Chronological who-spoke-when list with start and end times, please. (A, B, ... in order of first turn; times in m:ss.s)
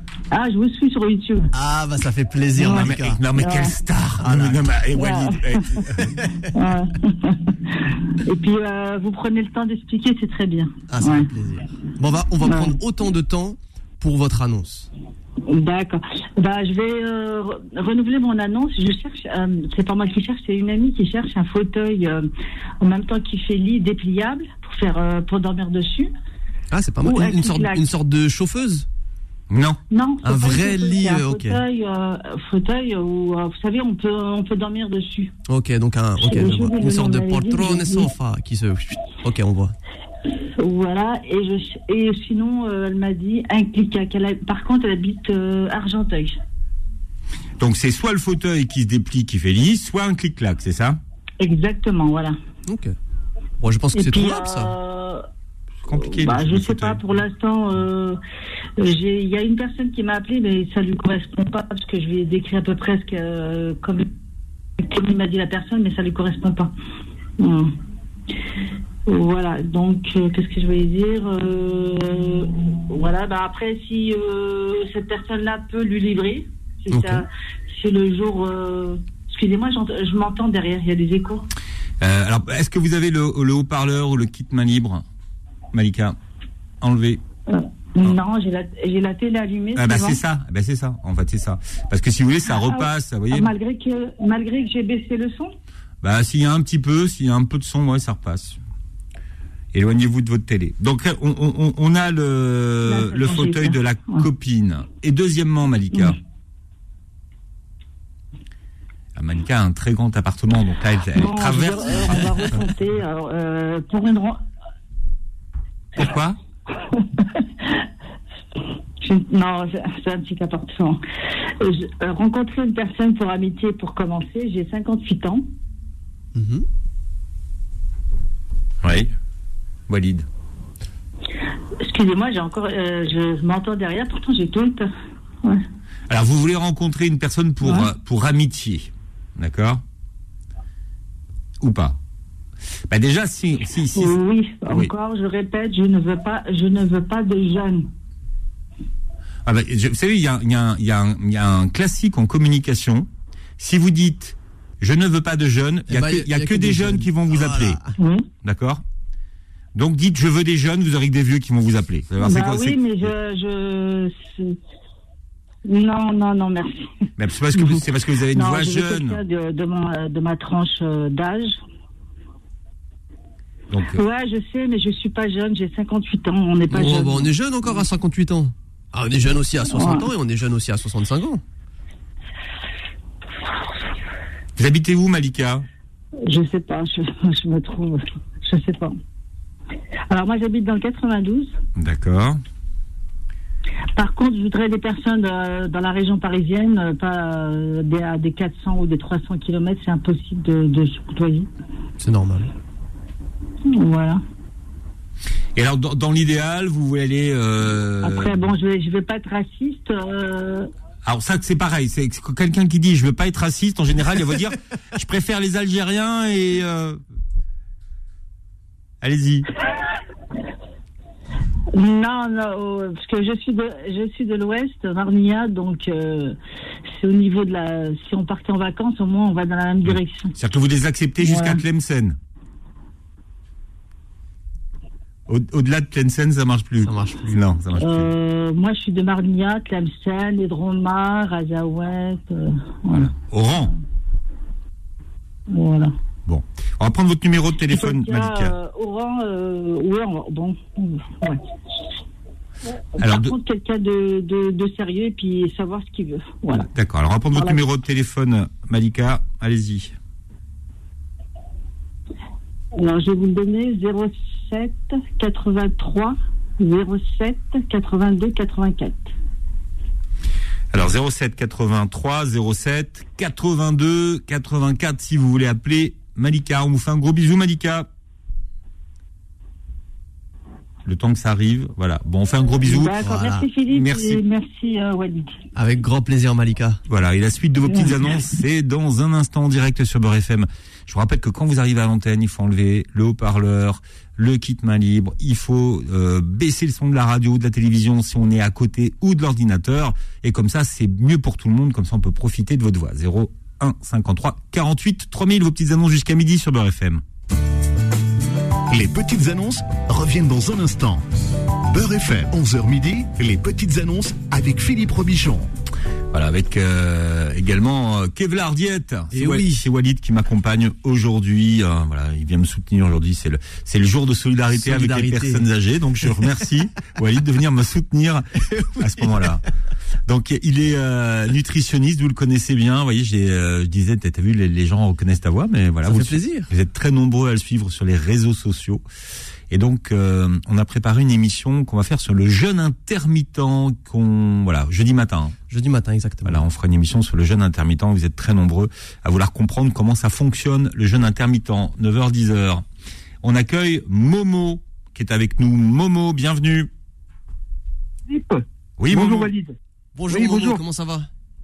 0:00.3-0:01.5 A
0:01.5-0:03.2 B
0:02.6-0:03.7 A
0:02.7-0:06.2 C
0:04.2-0:04.6 B
0:05.0-0:05.6 A
0:06.0-0:06.5 B
0:06.5-0:11.3 A
0:10.9-0:14.9 B
0:12.4-0:12.8 A
0:15.5-0:22.3 A
0:22.8-0:26.1 A
0:26.7-0:28.9 B
0:27.0-0:27.8 A
0:29.5-0:29.8 C
0:29.9-0:35.3 A
0:30.2-0:31.6 B
0:35.5-0:39.7 B
0:36.2-0:38.1 A
0:40.6-0:46.4 A
0:47.6-0:51.0 C
0:51.4-0:52.4 A
0:52.7-0:52.9 B
0:53.6-0:54.7 B
0:53.9-0:55.2 A
0:55.8-0:57.0 C
0:56.0-0:58.2 A
0:58.8-1:04.0 A
1:04.8-1:06.7 A
1:07.4-1:07.7 A
1:09.1-1:21.5 A
1:16.9-1:17.2 B
1:22.0-1:25.0 C
1:25.7-1:26.2 C
1:26.8-1:27.2 C
1:27.5-1:30.2 A
1:29.8-1:33.5 C
1:32.5-1:35.5 A
1:36.0-1:38.6 C
1:39.7-1:46.2 C
1:42.8-1:44.2 A
1:49.2-1:52.6 C
1:51.2-1:54.4 A
1:56.0-1:56.4 C
1:56.9-1:57.8 A
1:59.0-2:01.0 A
2:01.6-2:05.4 A
2:06.3-2:06.6 B
2:08.8-2:09.1 C
2:09.9-2:10.2 C
2:11.8-2:14.9 A
2:16.1-2:19.8 C
2:17.6-2:17.9 A
2:21.6-2:22.0 C
2:22.9-2:24.2 C
2:23.9-2:27.9 A
2:29.4-2:37.8 C
2:35.9-2:37.9 B
2:38.0-2:38.3 A
2:38.4-2:38.8 C
2:39.7-2:43.1 C
2:42.2-2:44.6 A
2:45.6-2:47.8 A
2:47.2-2:49.2 C
2:48.3-2:51.6 A
2:53.7-2:54.0 C
2:53.9-2:57.3 A
2:56.7-3:01.4 B
2:59.7-3:00.1 A
3:04.6-3:05.6 C
3:06.2-3:09.0 A
3:10.1-3:11.5 A
3:11.8-3:12.4 C
3:13.9-3:21.5 A
3:22.0-3:22.5 B
3:23.7-3:24.2 A
3:25.5-3:28.4 C
3:28.0-3:30.7 A
3:31.0-3:37.0 C
3:39.0-3:39.5 C
3:41.7-3:46.4 A
3:46.9-3:50.3 A
3:49.8-3:52.2 C
3:51.2-3:51.6 A
3:55.3-3:58.1 C
3:56.8-3:57.3 B
3:57.8-4:03.1 A
4:02.9-4:03.7 C
4:05.5-4:05.9 A
4:06.2-4:08.5 C
4:07.7-4:11.4 A
4:13.0-4:16.7 A
4:13.0-4:13.3 C
4:16.7-4:19.9 C
4:17.3-4:17.6 A
4:22.8-4:29.1 A
4:30.7-4:37.9 C
4:40.8-4:43.0 C
4:42.6-4:45.3 A
4:43.0-4:43.5 B
4:43.7-4:44.2 C
4:45.5-4:46.8 B
4:46.9-5:07.0 C
5:08.7-5:11.0 D
5:11.7-5:15.5 D
5:16.1-5:29.4 C
5:19.1-5:19.6 B
5:24.6-5:25.5 B
5:28.5-5:29.4 B
5:30.1-5:38.8 C
5:35.8-5:36.5 B
5:39.5-5:45.4 C
5:45.5-5:46.4 B
5:46.2-5:52.6 C
5:53.2-5:56.7 C
5:58.1-5:59.5 E
5:58.8-5:59.3 C
5:59.9-6:01.1 B
6:00.1-6:00.6 E